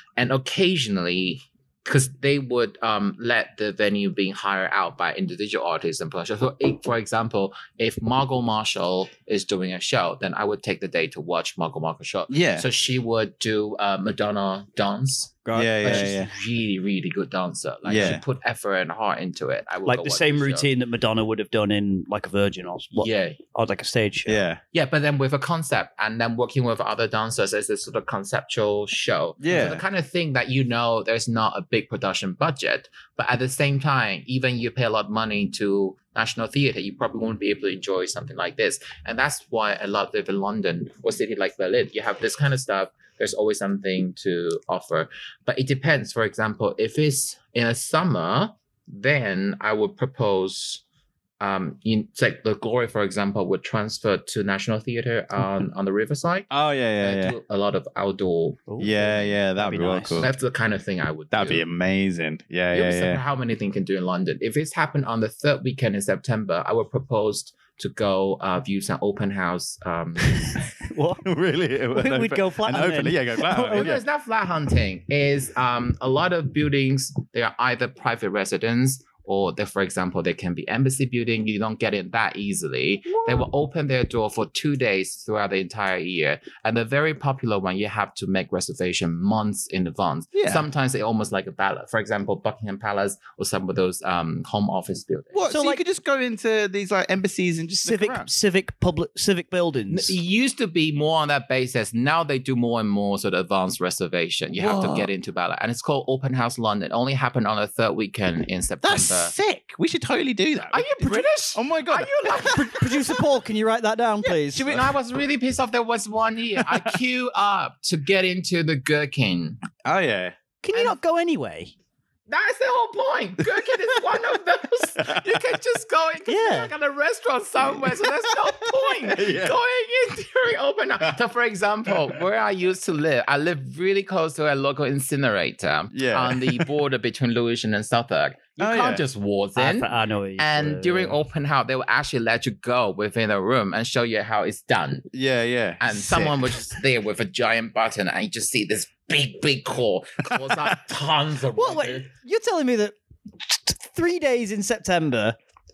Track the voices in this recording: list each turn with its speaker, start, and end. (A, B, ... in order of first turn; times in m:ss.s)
0:00.2-0:20.7 A
0:12.3-0:12.7 B
0:15.5-0:16.2 C
0:15.5-0:16.3 B
0:17.8-0:18.2 B
0:19.9-0:24.4 C
0:23.0-0:23.4 A
0:24.3-0:24.6 B
0:24.7-0:50.8 A
0:29.4-0:29.8 B
0:51.4-0:59.1 A
0:56.5-0:57.4 B
0:58.7-1:00.2 C
0:58.8-1:00.3 B
1:00.2-1:01.6 A
1:01.3-1:03.2 B
1:02.7-1:10.6 A
1:10.7-1:11.3 C
1:11.2-1:14.0 B
1:11.9-1:14.0 C
1:13.7-1:35.5 A
1:30.3-1:30.6 B
1:35.3-1:38.3 B
1:35.5-1:35.8 C
1:37.8-1:40.2 C
1:39.9-1:49.3 A
1:44.6-1:45.1 B
1:48.8-1:52.7 B
1:50.7-1:53.1 A
1:52.3-1:54.8 C
1:54.2-1:54.9 B
1:54.6-1:59.6 A
1:56.6-1:56.9 B
1:59.8-2:00.4 B
2:00.6-2:01.7 C
2:02.3-2:25.1 A
2:03.7-2:04.2 B
2:05.0-2:05.4 B
2:06.3-2:06.7 C
2:07.7-2:09.6 B
2:15.9-2:16.7 B
2:18.6-2:19.0 B
2:19.6-2:21.2 C
2:25.1-2:26.4 B
2:25.8-2:32.1 A
2:31.6-2:35.4 C